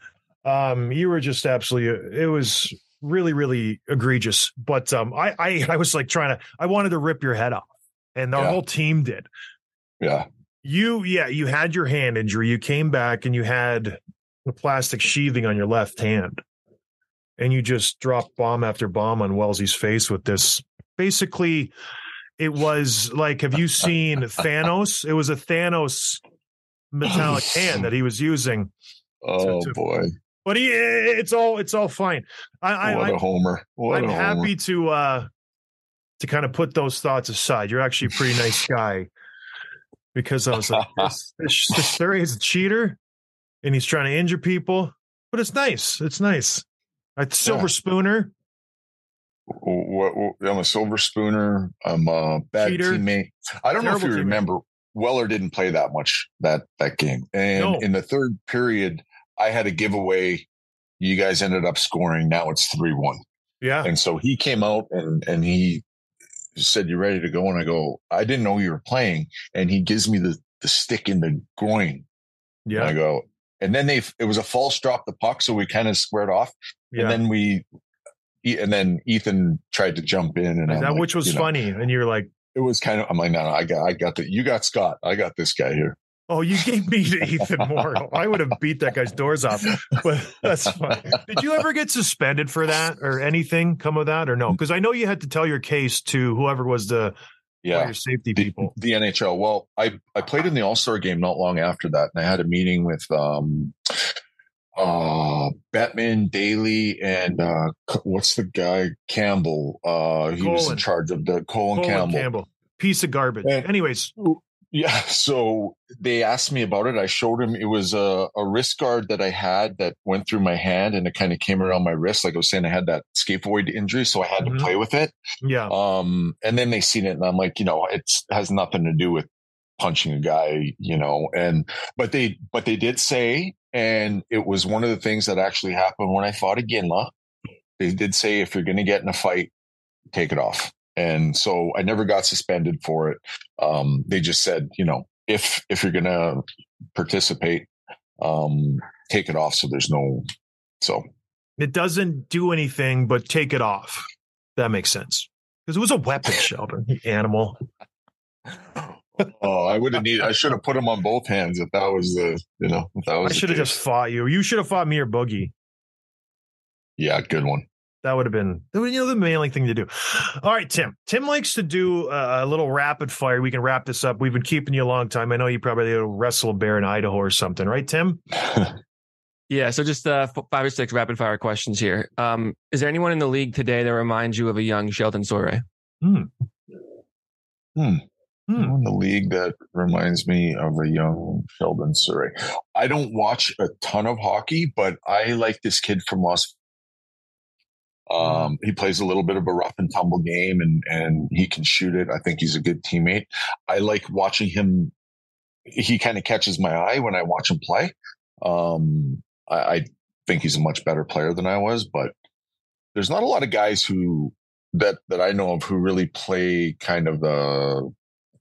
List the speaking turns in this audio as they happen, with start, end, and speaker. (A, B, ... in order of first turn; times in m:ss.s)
0:00.4-0:09.3 A
0:10.0-0:10.3 B
0:10.6-0:16.4 A
0:17.4-0:21.7 A
0:22.4-0:26.2 A
0:26.9-0:28.7 A
0:29.2-0:30.1 B
0:29.4-0:29.8 A
0:30.4-0:33.2 A
0:32.8-0:34.5 B
0:33.9-0:35.3 A
0:36.2-0:39.1 A
0:40.1-0:43.0 A
0:40.7-0:41.1 B
0:43.6-0:46.6 A
0:47.2-0:48.3 A
0:47.4-0:47.7 B
0:49.5-1:00.5 B
0:52.6-0:53.0 A
0:53.8-0:54.4 A
0:57.6-0:57.9 A
1:01.0-1:03.2 B
1:03.6-1:03.9 A
1:03.8-1:05.8 B
1:06.6-1:12.1 B
1:12.7-1:12.9 A
1:12.8-1:17.6 B
1:16.9-1:17.2 A
1:18.4-1:21.5 B
1:20.7-1:22.3 A
1:22.5-1:26.0 B
1:26.3-1:37.2 A
1:37.6-1:44.1 B
1:37.7-1:38.7 A
1:44.8-1:52.3 B
1:50.4-1:50.8 A
1:51.8-1:54.1 A
1:53.4-2:05.1 B
2:04.4-2:04.7 A
2:05.4-2:05.7 A
2:05.7-2:17.1 B
2:17.8-2:19.5 B
2:20.1-2:27.7 B
2:28.2-2:30.3 B
2:31.6-2:37.6 A
2:39.2-2:43.8 B
2:43.2-2:45.5 A
2:47.0-2:47.7 B
2:48.0-2:58.2 A
2:59.5-3:05.6 C
3:06.0-3:06.3 A
3:07.8-3:08.0 B
3:08.5-3:08.7 A
3:08.6-3:16.6 B
3:18.1-3:24.9 B
3:25.7-3:32.1 B
3:33.0-3:37.9 B